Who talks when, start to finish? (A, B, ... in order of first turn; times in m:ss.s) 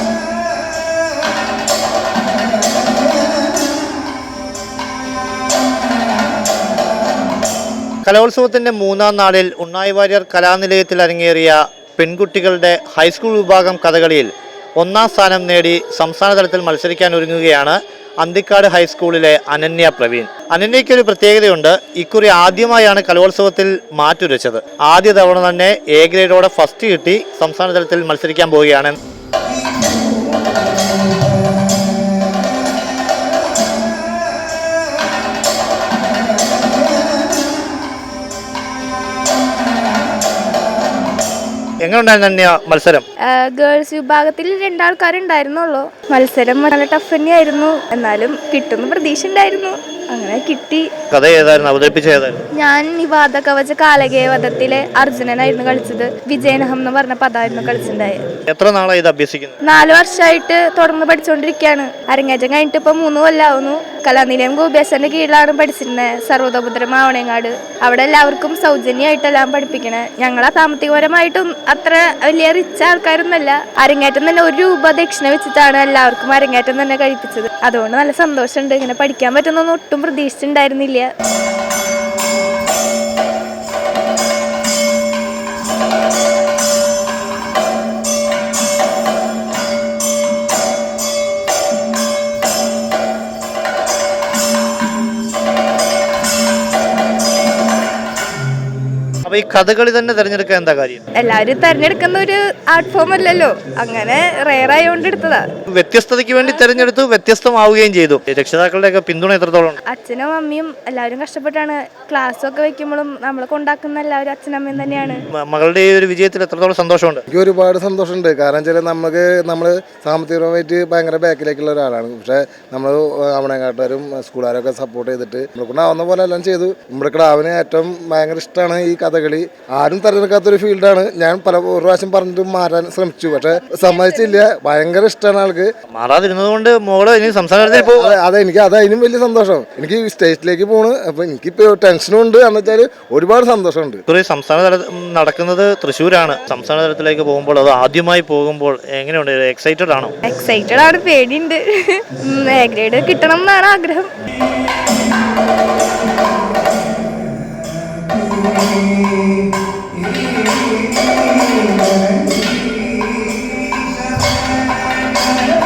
0:08.0-0:29.0 A
0:41.8-0:43.0 A
0:43.2-0:50.9 B
0:51.1-0:52.4 A
0:52.5-0:58.2 B
0:58.5-0:59.6 A
0:59.6-1:21.1 B
1:39.3-1:41.0 A
1:41.1-1:45.4 B
1:45.7-1:49.8 A
1:46.4-1:46.8 B
1:49.9-1:55.2 B
1:55.4-1:57.2 A
1:57.3-2:15.7 C
2:15.9-2:18.2 A
2:17.7-2:24.0 C
2:24.1-2:30.2 A
2:30.2-2:34.1 B